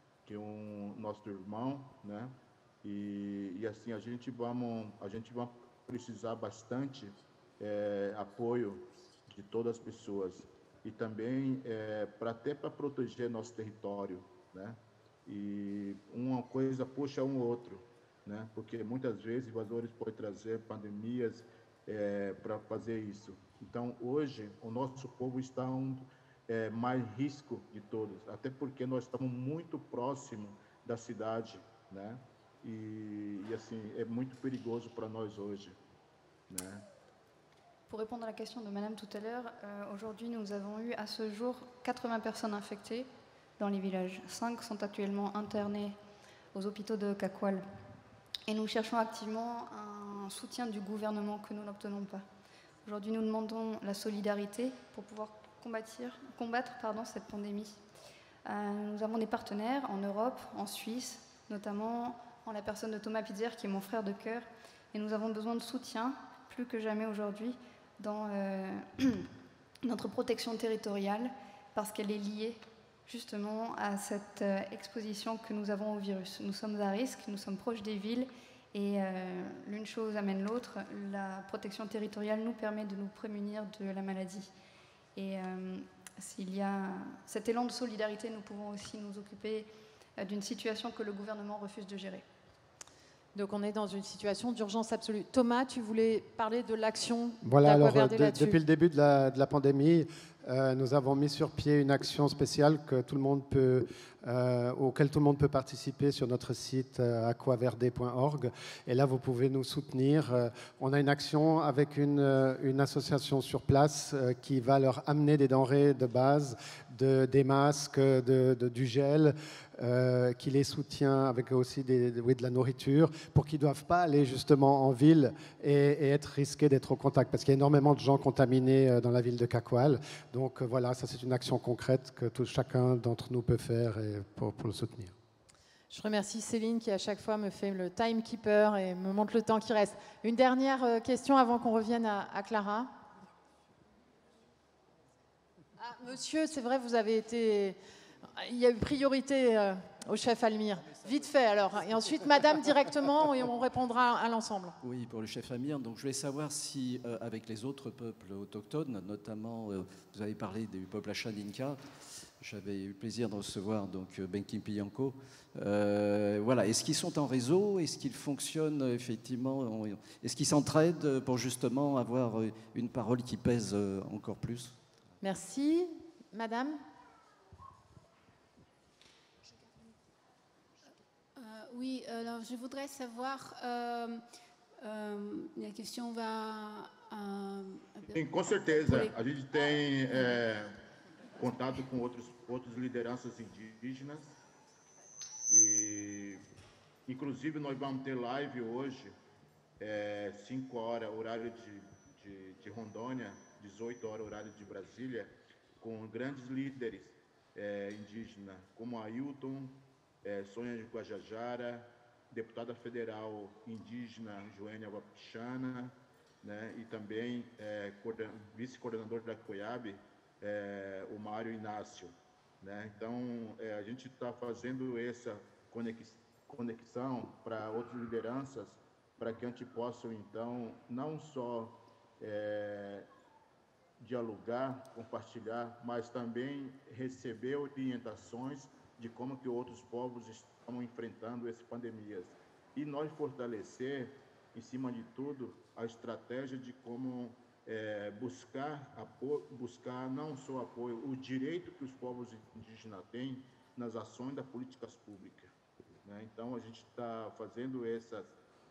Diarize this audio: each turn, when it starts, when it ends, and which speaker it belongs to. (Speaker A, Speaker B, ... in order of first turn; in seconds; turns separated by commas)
Speaker A: 0.2-35.8, Speaker A: 36.5-36.9, Speaker B: 37.9-46.0, Speaker B: 46.5-47.7, Speaker B: 48.5-52.2, Speaker B: 52.8-57.8, Speaker B: 58.4-69.3, Speaker B: 69.8-84.5, Speaker B: 85.2-92.2, Speaker C: 93.3-98.6, Speaker D: 97.4-135.1, Speaker C: 135.9-142.9, Speaker C: 145.8-147.8, Speaker C: 148.3-154.7, Speaker E: 154.8-161.8, Speaker E: 162.4-174.8, Speaker C: 175.2-176.8, Speaker F: 181.3-184.2, Speaker F: 184.8-189.2, Speaker A: 188.1-190.7, Speaker F: 190.1-190.4, Speaker A: 191.3-194.3, Speaker A: 195.5-196.4, Speaker A: 197.1-199.1, Speaker A: 199.8-233.1, Speaker A: 234.0-255.5, Speaker A: 256.0-258.3